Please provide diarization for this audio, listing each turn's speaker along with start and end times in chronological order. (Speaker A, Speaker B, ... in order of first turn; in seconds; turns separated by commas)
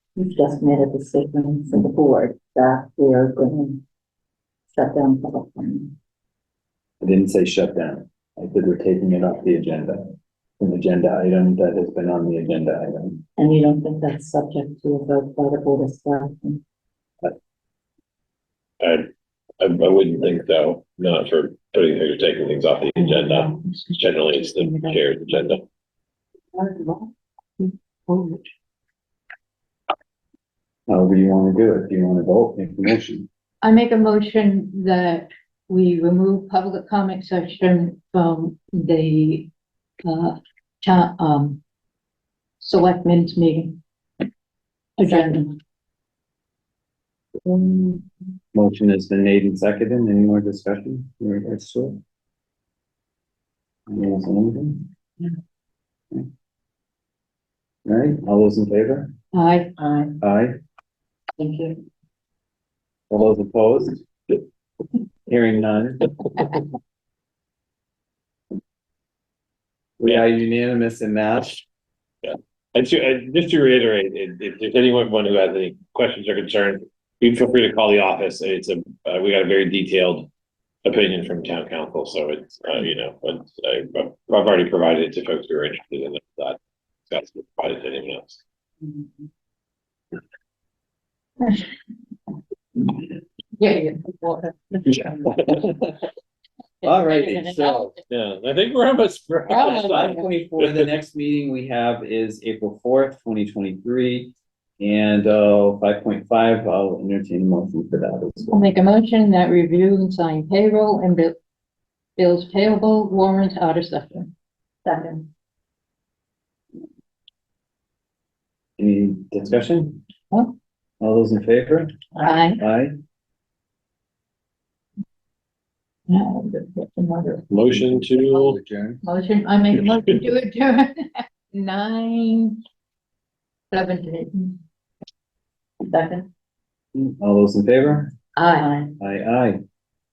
Speaker A: 0.2-3.8, Speaker A: 4.7-6.0, Speaker B: 7.0-13.2, Speaker A: 13.4-16.6, Speaker C: 18.8-19.1, Speaker C: 19.6-25.6, Speaker A: 23.1-23.5, Speaker A: 24.7-25.0, Speaker A: 26.6-28.4, Speaker B: 30.9-33.3, Speaker D: 33.6-39.5, Speaker D: 40.0-41.6, Speaker D: 42.6-43.8, Speaker A: 45.0-45.5, Speaker D: 45.0-45.6, Speaker B: 48.5-52.0, Speaker B: 53.9-54.9, Speaker B: 57.9-59.1, Speaker D: 59.3-59.8, Speaker A: 59.8-60.2, Speaker B: 60.2-60.6, Speaker A: 61.4-61.8, Speaker B: 63.1-64.0, Speaker B: 65.3-66.1, Speaker B: 70.0-71.7, Speaker C: 72.2-80.3, Speaker C: 80.8-86.6, Speaker C: 87.1-88.4, Speaker D: 93.6-95.3, Speaker C: 94.9-95.7, Speaker D: 96.8-98.0, Speaker B: 96.8-97.9, Speaker C: 98.1-100.9, Speaker D: 99.5-100.3, Speaker B: 99.6-108.5, Speaker D: 108.5-111.4, Speaker D: 112.2-114.3, Speaker A: 114.8-115.3, Speaker B: 118.8-120.0, Speaker B: 121.0-121.9, Speaker D: 122.2-122.6, Speaker B: 122.6-122.9, Speaker D: 126.1-127.4, Speaker C: 127.5-128.6, Speaker B: 127.6-129.0, Speaker D: 129.0-132.6, Speaker C: 129.8-130.2, Speaker D: 133.7-134.6, Speaker A: 135.8-136.3, Speaker B: 136.9-138.1, Speaker D: 138.4-138.8, Speaker A: 138.6-138.9, Speaker B: 139.0-139.6